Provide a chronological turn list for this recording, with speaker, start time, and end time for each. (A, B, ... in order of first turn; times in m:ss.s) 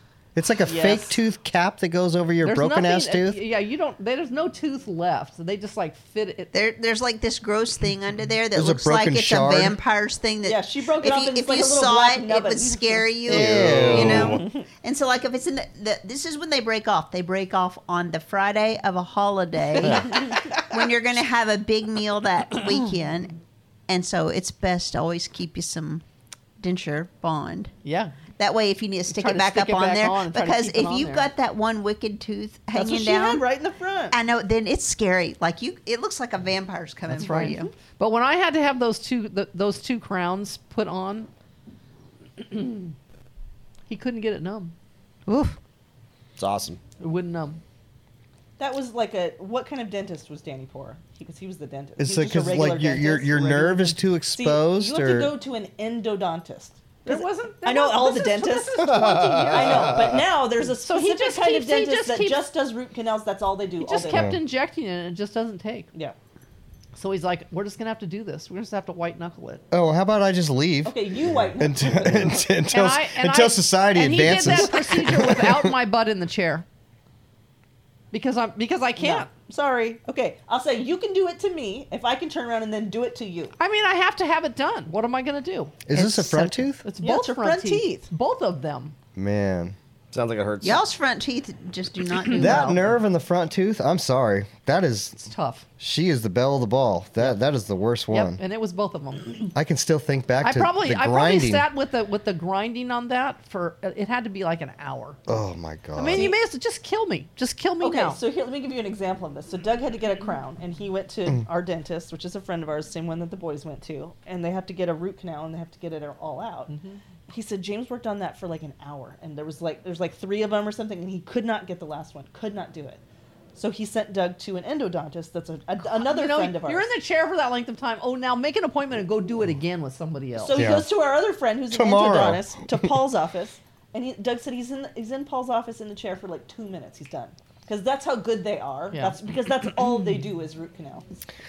0:00.4-0:03.4 A
0:00.7-0:01.2 B
0:02.4-0:06.5 C
0:06.5-0:26.0 D
0:08.5-0:09.8 A
0:10.4-0:13.1 B
0:13.3-0:14.4 E
0:13.3-0:14.4 A
0:14.1-0:14.7 B
0:19.8-0:20.1 E
0:26.6-0:27.7 D
0:27.8-0:28.2 C
0:28.4-0:33.4 D
0:29.1-0:31.3 C
0:32.7-0:34.2 B
0:34.1-0:37.7 D
0:37.1-0:41.3 C
0:42.4-0:43.0 C
0:43.9-0:44.7 C
0:45.3-0:45.6 D
0:46.4-0:46.8 E
0:47.0-0:47.6 C
0:48.6-0:58.8 B
0:52.0-0:55.3 A
0:57.0-1:00.0 C
0:58.8-1:00.2 E
0:59.5-1:04.3 B
1:00.8-1:02.4 C
1:03.8-1:05.9 C
1:04.1-1:04.4 A
1:07.0-1:09.6 C
1:09.7-1:15.7 A
1:10.8-1:12.4 B
1:12.7-1:16.6 C
1:18.1-1:19.3 C
1:19.0-1:23.6 B
1:23.6-1:29.0 C
1:25.9-1:26.8 A
1:27.0-1:28.1 B
1:29.2-1:29.8 A
1:30.1-1:30.8 E
1:30.6-1:32.9 D
1:32.3-1:35.2 A
1:35.2-1:35.7 C
1:35.8-1:38.4 A
1:38.1-1:39.5 C
1:39.5-1:41.7 A
1:40.4-1:45.2 C
1:45.3-1:46.3 A
1:46.0-1:48.2 C
1:47.8-1:56.7 B
1:56.7-1:57.0 C
1:57.3-2:03.0 B
2:03.6-2:06.9 B
2:05.8-2:10.7 C
2:10.4-2:21.0 B
2:10.6-2:10.9 A
2:11.7-2:12.5 A